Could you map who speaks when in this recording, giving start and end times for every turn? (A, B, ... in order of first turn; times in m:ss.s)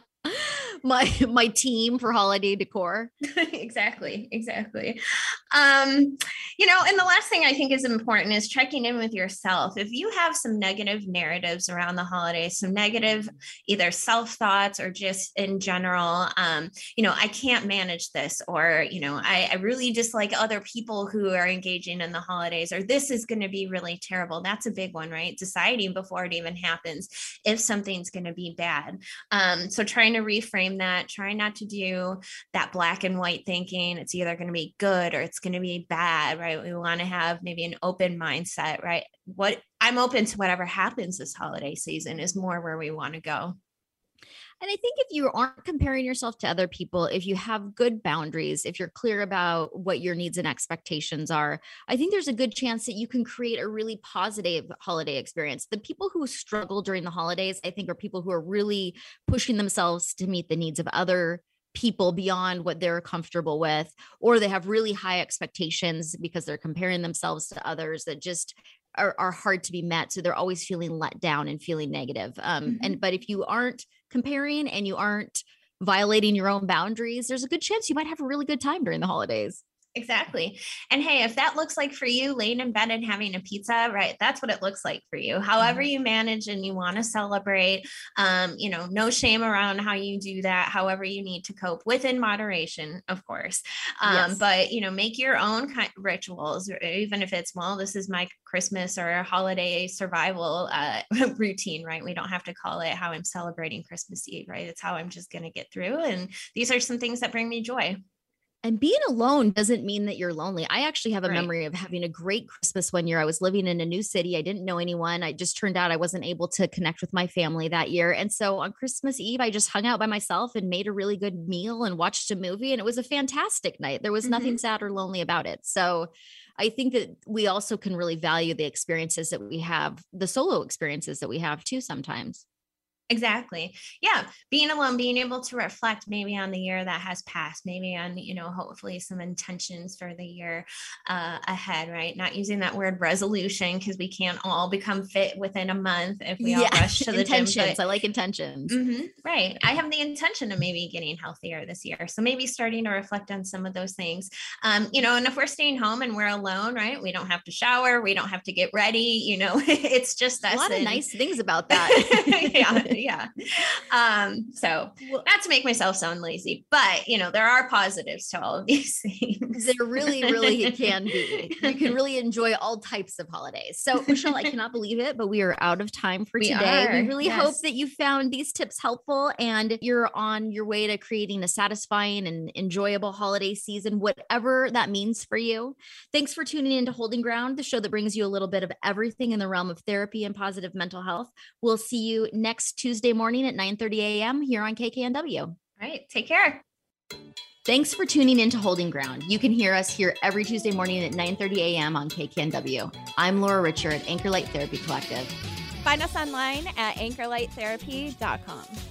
0:00.2-0:03.1 A
0:03.3-0:43.6 B
0:44.6-1:19.6 A
1:12.6-1:13.0 B
1:20.0-1:48.0 B
1:34.1-1:34.4 A
1:48.6-2:12.4 A
2:04.2-2:04.6 B
2:13.1-2:27.8 B
2:26.4-2:28.8 A
2:28.7-2:41.0 B
2:40.5-2:42.9 A
2:41.7-2:51.9 B
2:49.5-3:15.6 A
2:56.4-2:57.6 B
3:15.8-3:16.6 B
3:17.6-3:25.4 A
3:25.8-3:28.8 C